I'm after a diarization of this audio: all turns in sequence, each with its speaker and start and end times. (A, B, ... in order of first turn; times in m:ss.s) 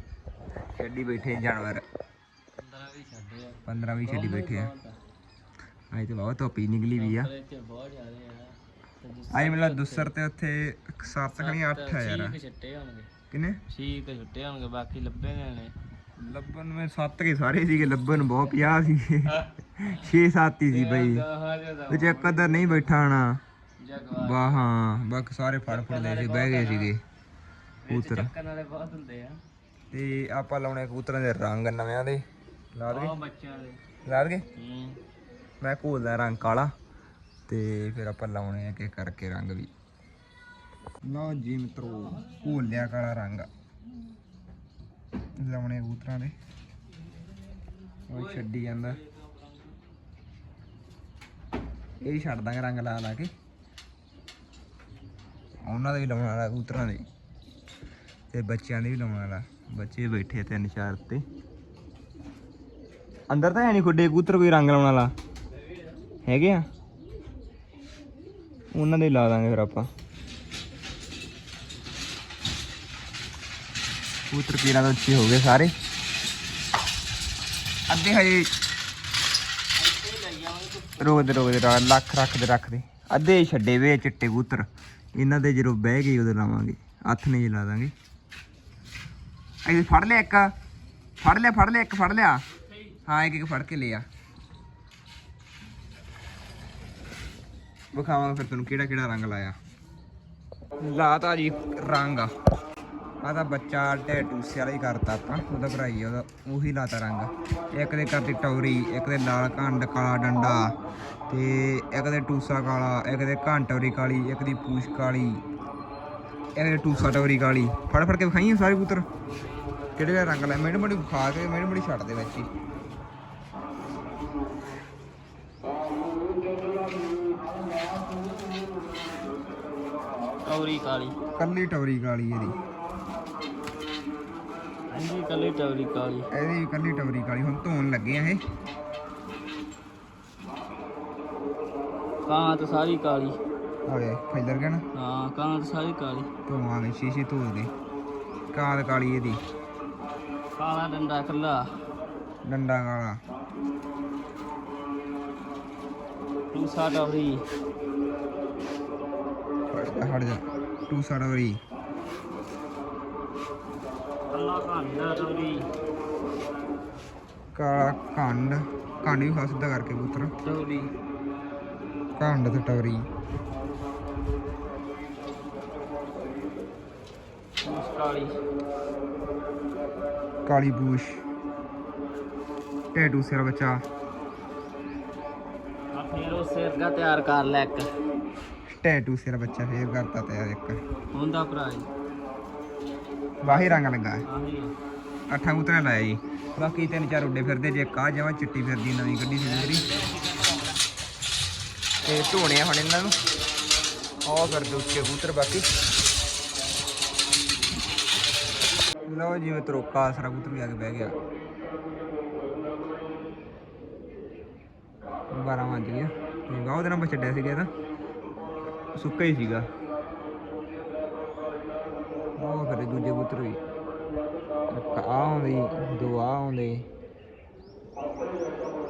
0:00.8-0:01.8 A
0:02.6-0:05.0 B
0:03.6-0:04.7 A
0:05.9-0:07.3 A
0:06.9-0:10.1 B
0:09.3-0:12.4 A
0:11.4-0:13.1 B
0:13.3-0:13.6 A
0:13.7-0:15.7 B
0:16.2-0:21.2 A
0:18.1-0:20.0 B
0:20.7-0:23.1 B
0:21.9-0:23.4 A
0:23.8-0:24.6 B
0:24.1-0:27.0 A
0:25.6-0:26.9 B
0:27.8-0:29.4 B
0:27.9-0:28.3 A
0:29.9-0:32.2 A
0:32.7-0:33.1 A
0:32.9-0:33.8 B
0:34.0-0:34.4 A
0:34.5-0:35.0 B
0:35.6-0:36.7 A
0:37.5-0:39.7 A
0:41.0-0:43.5 A
0:41.8-0:42.7 B
0:45.4-0:46.3 A
0:47.9-0:49.8 B
0:48.1-0:49.0 A
0:52.0-0:53.3 A
0:55.6-0:57.0 A
0:58.3-1:01.2 A
1:03.3-1:05.1 A
1:06.2-1:06.6 A
1:08.7-1:09.9 A
1:14.3-1:15.7 A
1:17.9-1:18.5 A
1:19.8-1:21.6 B
1:21.0-1:27.9 A
1:29.6-1:30.5 A
1:31.2-1:32.4 A
1:33.1-1:34.0 A
1:37.9-1:39.6 A
1:40.8-1:42.3 A
1:43.2-1:50.7 A
1:51.3-1:55.4 A
1:56.6-1:59.0 A
2:00.0-2:02.5 A
2:10.4-2:11.2 B
2:11.4-2:12.6 A
2:14.9-2:16.3 B
2:16.3-2:18.4 A
2:22.2-2:23.4 B
2:23.9-2:24.8 A
2:24.9-2:26.3 B
2:26.5-2:27.7 A
2:28.5-2:29.4 A
2:30.6-2:31.6 B
2:32.4-2:33.2 A
2:36.5-2:37.4 B
2:39.7-2:41.6 A
2:44.3-2:45.7 B
2:47.5-2:50.3 A
2:50.4-2:50.9 B
2:52.2-2:53.1 A
2:57.6-2:58.3 B
3:00.4-3:01.2 A
3:02.9-3:03.8 A
3:05.9-3:07.9 B
3:08.7-3:10.8 A
3:11.1-3:11.9 B
3:13.4-3:14.2 A
3:13.4-3:14.7 B
3:15.3-3:19.9 A
3:19.4-3:20.8 B
3:22.0-3:23.2 A
3:24.2-3:25.6 A
3:29.1-3:31.1 A
3:35.3-3:37.7 A
3:38.9-3:39.7 A
3:42.4-3:43.6 A
3:44.7-3:46.8 A